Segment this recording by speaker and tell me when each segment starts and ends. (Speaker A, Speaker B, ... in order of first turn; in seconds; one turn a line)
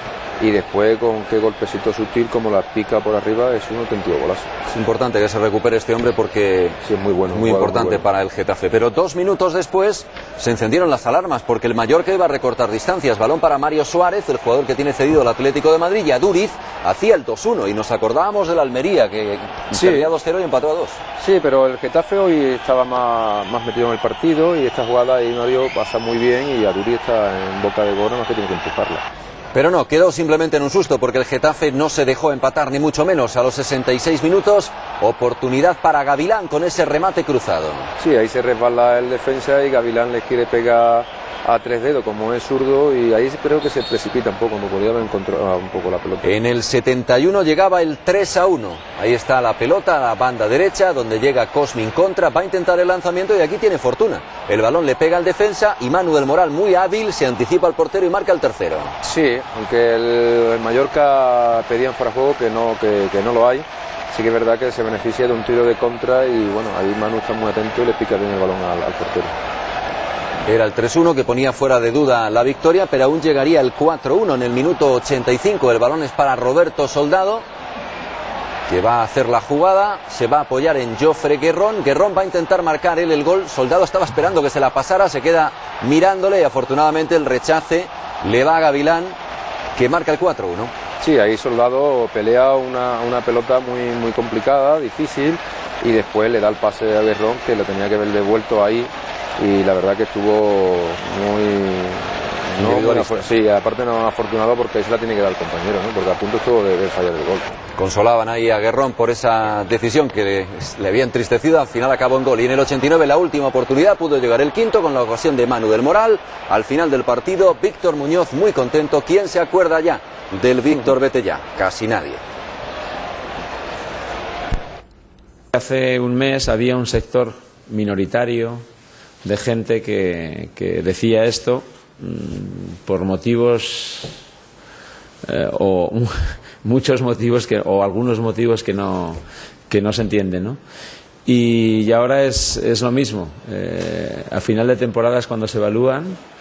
Speaker A: 0.4-4.5
Speaker B: 4.6-6.8
Speaker A: 6.8-8.0
Speaker B: 7.3-21.0
Speaker A: 19.7-20.1
Speaker A: 21.2-29.0
Speaker B: 29.5-37.9
Speaker A: 38.0-46.3
Speaker B: 46.2-58.9
Speaker A: 59.0-69.3
Speaker B: 70.5-77.5
Speaker B: 78.7-89.2
Speaker B: 89.7-90.7
Speaker A: 91.0-107.5
Speaker B: 102.6-103.3
Speaker B: 107.8-122.2
Speaker C: 125.5-128.6
Speaker C: 129.2-134.2
Speaker C: 135.2-140.6
Speaker C: 141.2-146.2